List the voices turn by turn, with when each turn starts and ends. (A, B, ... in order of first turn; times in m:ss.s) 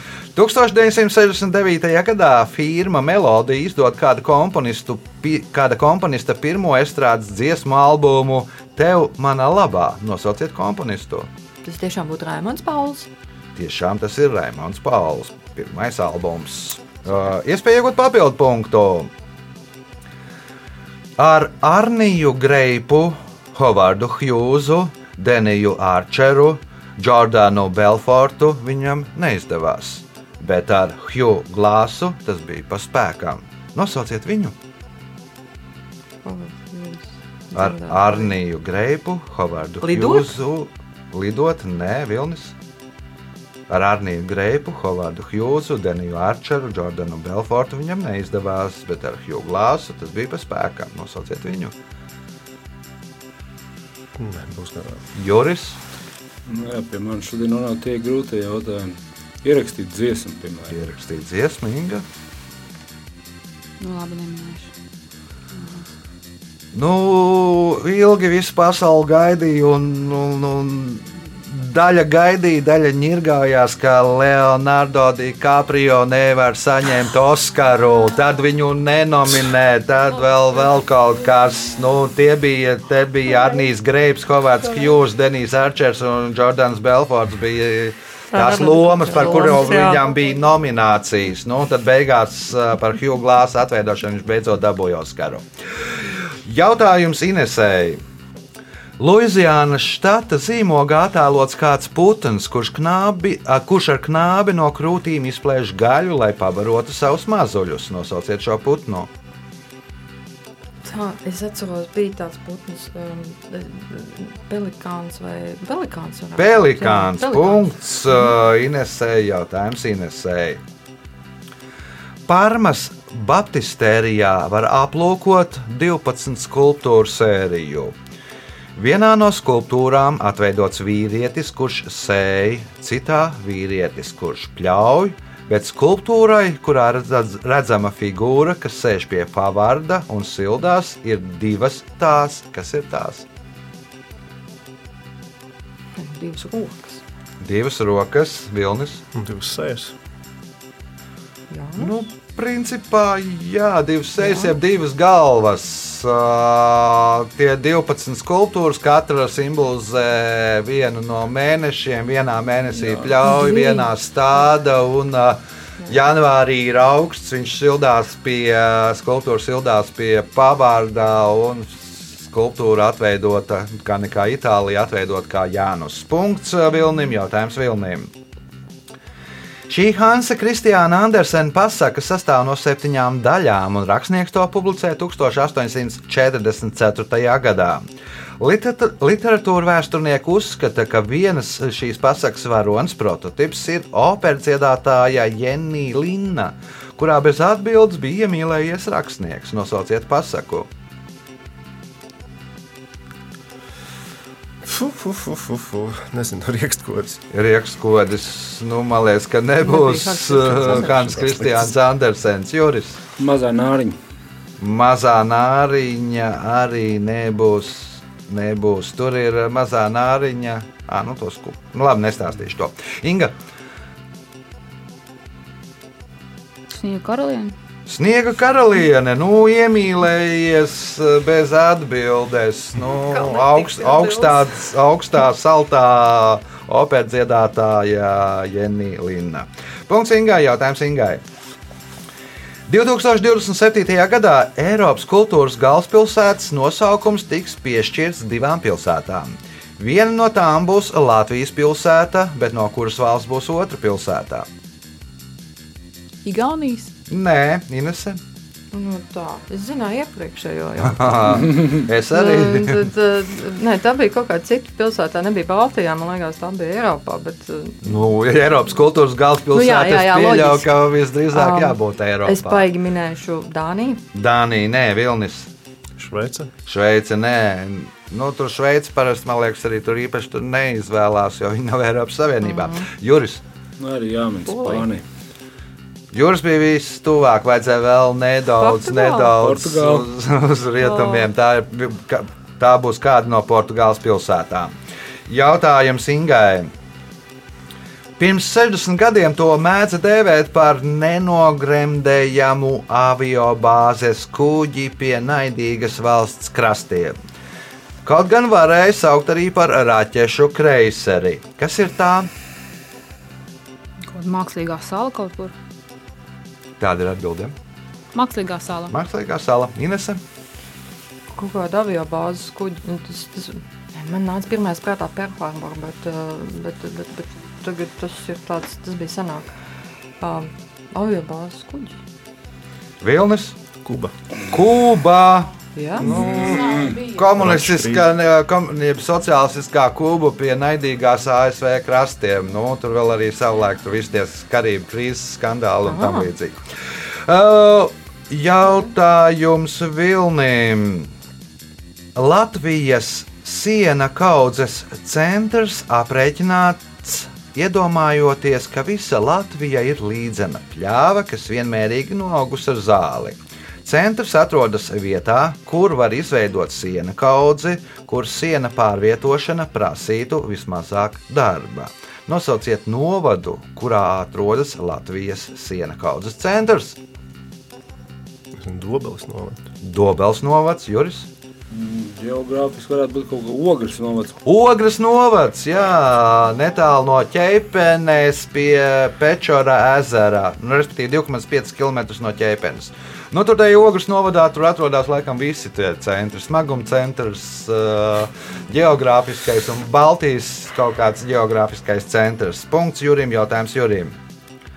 0:00.3-0:11.3 A
0:11.6-0:13.1 B
0:13.6-0:19.1 A
0:21.2-0:34.6 A
0:36.2-0:38.4 B
0:37.5-0:42.5 A
0:39.8-0:40.3 B
0:43.7-0:51.7 A
0:54.2-0:55.0 C
0:55.1-0:55.8 A
0:56.5-1:00.8 D
1:00.7-1:02.0 A
1:03.8-1:04.7 E
1:05.5-1:05.9 E
1:06.7-1:35.4 A
1:28.3-1:30.0 B
1:36.4-1:38.0 A
1:39.0-1:49.1 A
1:50.8-1:58.3 B
1:56.4-2:00.6 A
2:02.3-2:07.9 A
2:08.8-2:23.2 A
2:26.0-2:27.0 B
2:27.4-2:29.0 A
2:29.1-2:29.9 C
2:31.5-2:31.9 B
2:31.8-2:58.1 A
2:34.2-2:34.5 B
2:43.2-2:43.9 B
2:59.7-3:07.8 A
3:08.4-3:20.7 A
3:24.6-3:27.2 C
3:27.3-3:33.0 A
3:29.6-3:31.7 B
3:33.2-3:34.0 D
3:34.6-3:43.3 A
3:46.7-3:47.5 E
3:47.8-4:01.2 A
3:52.9-3:54.7 B
4:02.7-4:14.5 A
4:16.2-4:16.9 E
4:17.1-4:18.2 A
4:18.7-4:27.9 B
4:20.8-4:22.9 A
4:27.8-4:32.7 A
4:29.5-4:30.7 B
4:31.3-4:34.0 B
4:34.1-4:35.5 A
4:36.0-4:36.5 C
4:36.7-4:43.4 A
4:42.4-4:42.9 B
4:43.8-4:45.0 D
4:44.5-4:44.9 B
4:46.1-4:54.7 A
4:48.6-4:49.4 B
4:49.4-4:50.1 D
4:50.8-4:51.3 B
4:55.3-4:56.7 A
4:58.2-5:07.2 A
5:08.0-5:12.3 A
5:14.1-5:15.5 E
5:16.8-5:17.5 A
5:18.1-5:18.9 E
5:18.9-5:20.2 A
5:21.3-5:29.5 B
5:30.2-5:32.0 B
5:33.0-5:33.6 A
5:33.8-5:34.1 C
5:34.5-5:46.6 A
5:35.8-5:36.1 B
5:36.0-5:37.0 D
5:36.1-5:37.3 E
5:37.4-5:38.1 C
5:45.8-5:46.3 B
5:47.2-5:51.1 A
5:52.1-6:17.0 A
6:18.6-6:19.7 C
6:19.8-6:21.3 A
6:21.7-6:24.4 D
6:24.4-6:44.2 A